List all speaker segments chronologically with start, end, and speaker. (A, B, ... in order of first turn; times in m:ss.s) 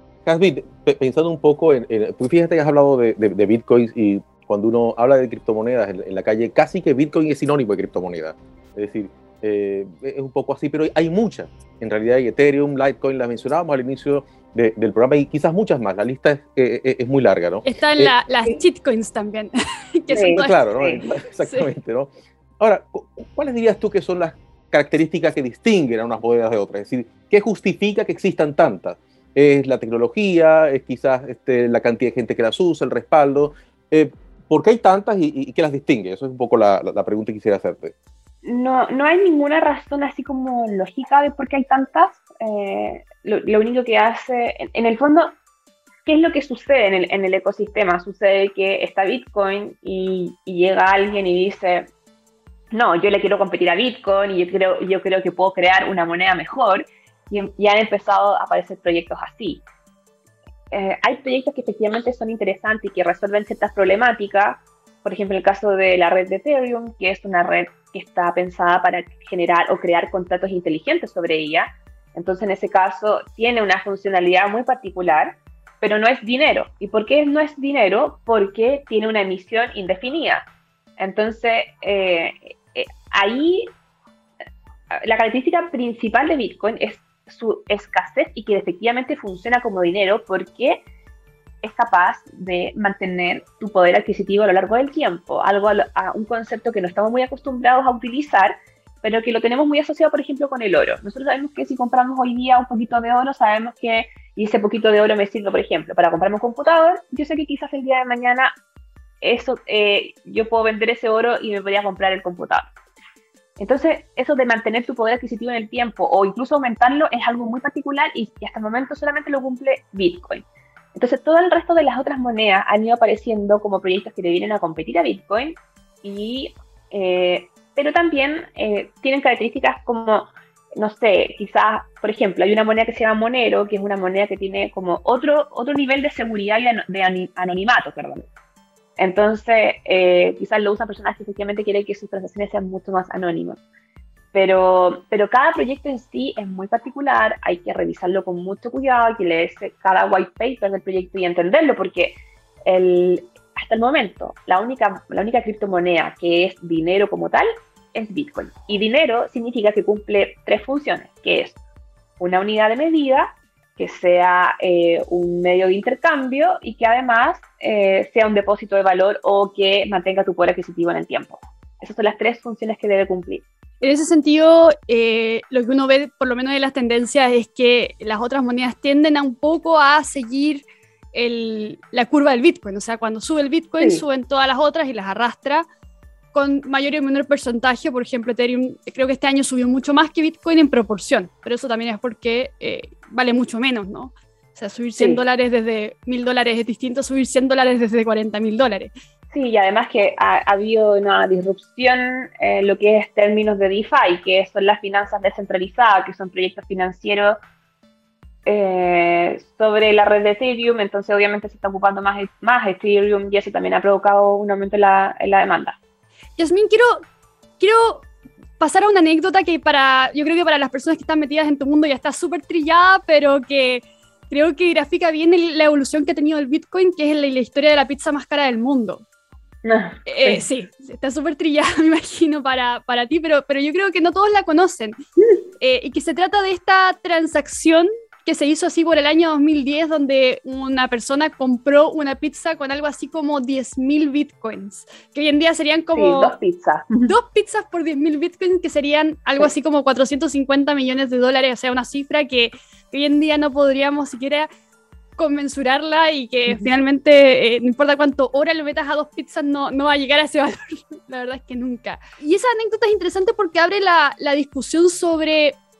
0:00.3-0:18.1 A
0:17.6-0:20.6 B
0:20.1-0:21.0 C
0:20.3-0:38.0 A
0:21.4-0:21.7 B
0:38.4-0:45.3 C
0:46.1-0:51.9 C
0:52.7-0:59.6 C
1:00.7-1:20.5 C
1:21.0-1:23.7 C
1:24.9-1:30.8 C
1:31.6-1:48.5 C
1:49.2-1:52.7 C
1:53.6-2:18.3 C
2:19.0-2:23.6 C
2:24.3-2:41.6 C
2:42.2-2:53.4 C
2:53.8-3:05.6 B
3:06.3-3:18.9 B
3:19.3-3:27.4 C
3:28.5-3:35.8 C
3:36.4-3:37.0 B
3:37.6-3:38.1 B
3:38.6-3:49.0 B
3:49.6-3:50.4 C
3:50.1-3:55.0 B
3:55.6-4:06.4 B
4:05.9-4:07.1 C
4:07.0-4:14.5 B
4:15.2-4:25.6 B